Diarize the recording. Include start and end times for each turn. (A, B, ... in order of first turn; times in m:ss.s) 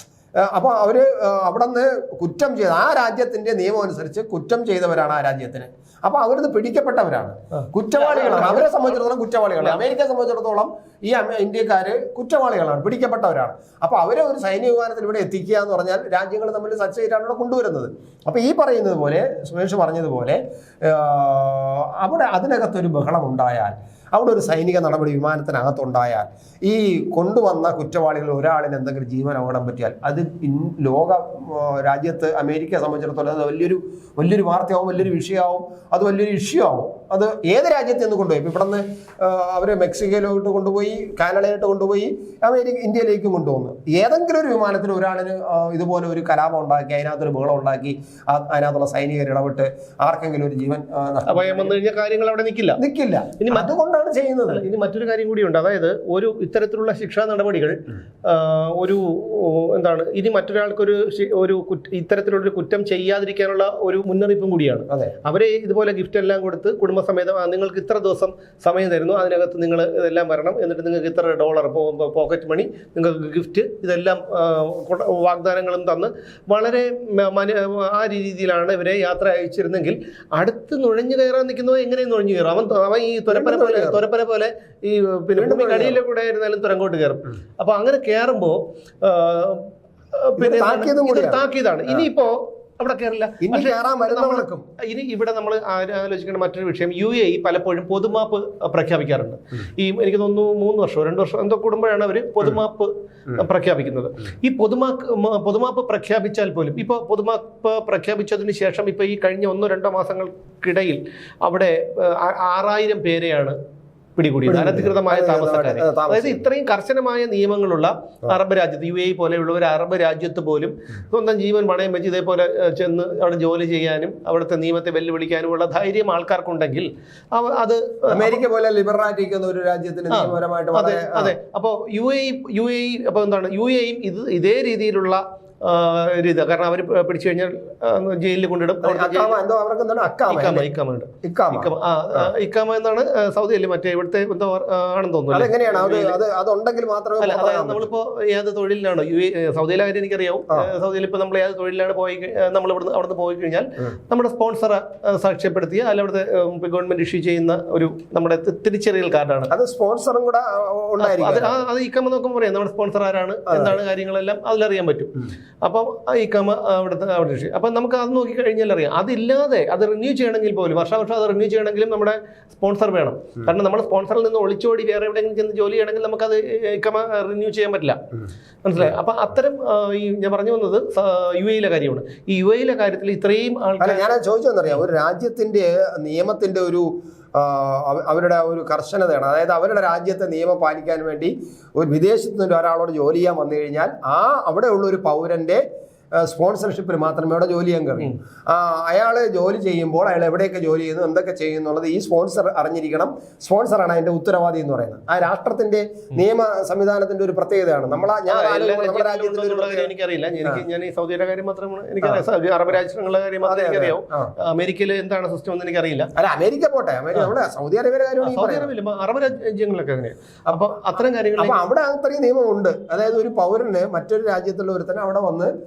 0:00.4-0:51.8 A
0:07.6-0:08.9 B
0:51.3-0:52.8 B
0:52.8-0:54.6 A
0:53.4-0:53.7 B
0:54.5-1:53.6 B
1:23.3-1:24.0 A
1:25.4-1:26.0 A
1:30.4-1:32.0 A
1:33.4-1:34.6 A
1:54.2-2:08.4 B
1:54.5-1:56.5 A
2:08.1-2:11.3 A
2:10.1-2:19.4 B
2:18.8-2:20.7 A
2:20.3-2:26.2 B
2:21.2-2:22.3 A
2:25.3-2:27.9 A
2:27.2-2:39.5 B
2:39.5-2:41.6 A
2:41.0-2:58.0 B
2:43.5-2:43.8 A
2:58.6-3:04.1 B
3:03.8-3:15.6 A
3:16.2-3:29.9 A
3:28.3-3:36.1 B
3:33.4-3:34.3 A
3:36.1-3:38.7 A
3:38.2-3:41.6 B
3:41.4-3:45.5 A